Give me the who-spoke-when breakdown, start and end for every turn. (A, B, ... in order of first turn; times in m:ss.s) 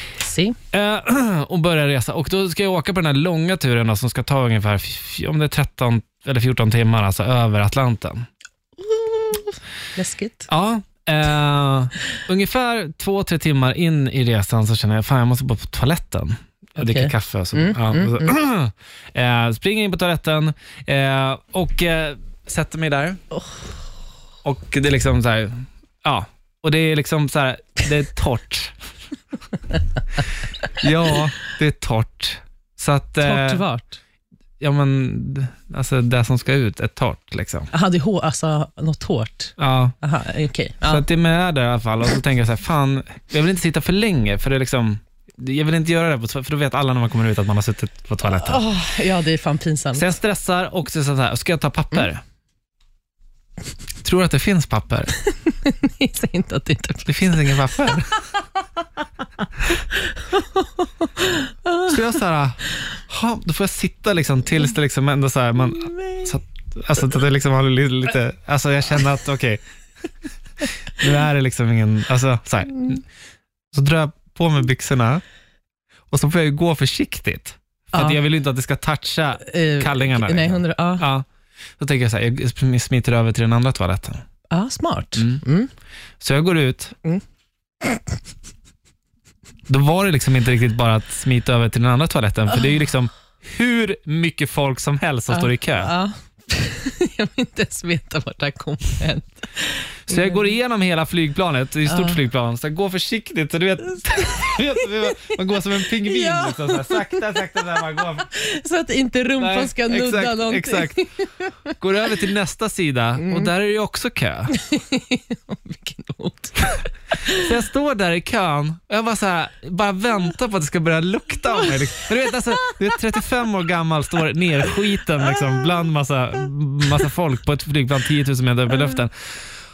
0:00.2-0:00.6 A
0:00.7-0:08.2 B
0:08.8-0:10.5 A
0:10.5-0:23.2 B
0:16.8-0:18.3 A
0:23.4-0:23.6 A
0:24.4-0:28.7 B
0:30.7-0:33.6 B
0:33.2-0:34.0 A
0:34.6-0:37.7 B
0:37.7-0:41.0 A
0:39.6-0:40.0 B
0:40.8-0:48.6 B
0:48.4-0:50.1 A
0:49.9-0:52.2 B
0:54.0-0:55.1 B
0:55.2-0:57.9 A
0:57.0-0:58.1 B
0:59.9-1:02.2 A
1:01.8-1:09.6 B
1:05.9-1:06.2 A
1:10.9-1:13.0 B
1:13.7-1:15.2 B
1:16.1-1:21.2 B
1:17.9-1:18.2 A
1:19.4-1:21.0 A
1:21.8-1:24.2 B
1:24.5-1:25.7 A
1:25.2-1:25.4 B
1:26.2-1:27.0 B
1:29.7-1:35.9 B
1:35.3-1:40.5 A
1:40.1-1:48.3 B
1:41.8-1:42.2 A
1:44.1-1:44.9 A
1:45.9-1:47.6 A
1:48.2-1:51.7 A
1:49.4-1:51.1 B
1:51.8-1:54.6 B
1:53.2-1:53.5 A
1:54.5-1:57.5 A
1:57.3-2:09.1 B
2:01.6-2:02.3 A
2:05.2-2:05.5 A